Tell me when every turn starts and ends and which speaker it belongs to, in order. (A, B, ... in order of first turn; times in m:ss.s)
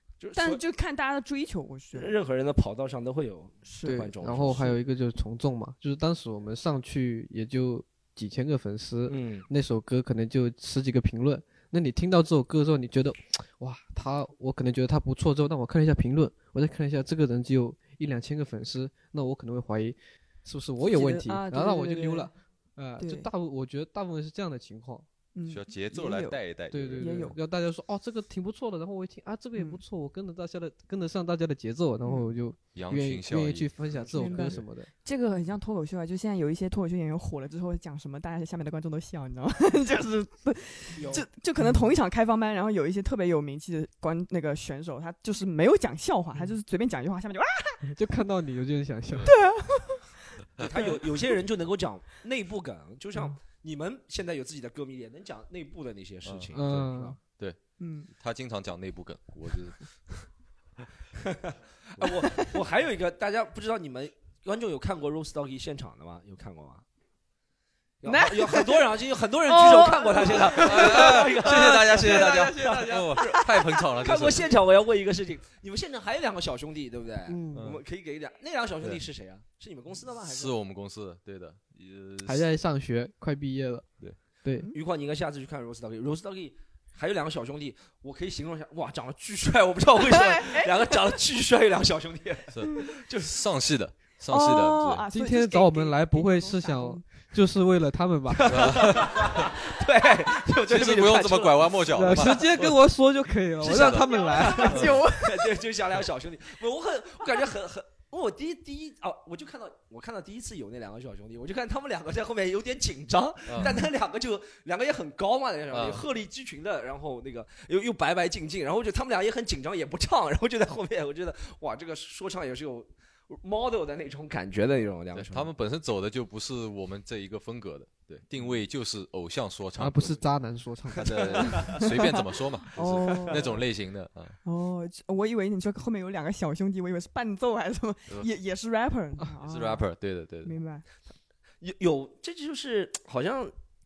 0:00.2-0:00.6 A
0:00.4-0:02.1 B
0:01.9-0:04.8 A
0:03.6-0:04.0 B
0:03.8-0:25.1 C
0:09.1-0:09.5 A
0:20.8-0:22.3 B
0:23.0-0:23.3 B
0:25.4-0:26.4 B
0:25.5-0:27.1 D
0:26.7-0:34.9 C
0:27.0-0:27.4 B
0:32.0-0:32.3 B
0:32.7-0:33.7 D
0:34.0-0:34.6 A
0:34.1-0:48.0 B
0:41.0-0:41.3 A
0:47.9-0:49.3 C
0:49.3-0:51.4 B
0:50.6-0:57.2 A
0:56.2-0:57.6 D
0:56.5-0:57.2 C
0:57.8-0:58.1 B
0:58.1-1:00.3 D
1:01.5-1:06.8 A
1:08.0-1:20.5 A
1:08.0-1:08.9 B
1:09.4-1:11.1 B
1:10.6-1:14.5 D
1:12.0-1:13.2 C
1:13.3-1:13.6 B
1:17.3-1:17.7 C
1:17.5-1:17.8 D
1:20.2-1:22.5 D
1:22.2-1:23.9 C
1:24.4-1:24.7 C
1:24.7-1:33.3 A
1:30.1-1:30.7 B
1:32.5-1:35.1 D
1:34.3-1:37.1 B
1:35.1-1:38.8 C
1:38.4-1:42.4 A
1:38.5-1:39.5 D
1:40.6-1:42.8 D
1:41.9-1:44.8 C
1:43.6-2:05.5 A
1:43.6-1:44.1 D
1:44.1-1:45.6 B
1:44.7-1:45.0 D
1:53.6-1:53.9 B
1:55.7-1:56.0 D
2:05.1-2:10.2 D
2:09.8-2:11.6 C
2:11.0-2:14.4 D
2:11.6-2:13.6 B
2:13.0-2:13.4 A
2:14.4-2:19.9 B
2:19.4-2:20.5 D
2:20.4-2:20.8 B
2:21.6-2:23.5 A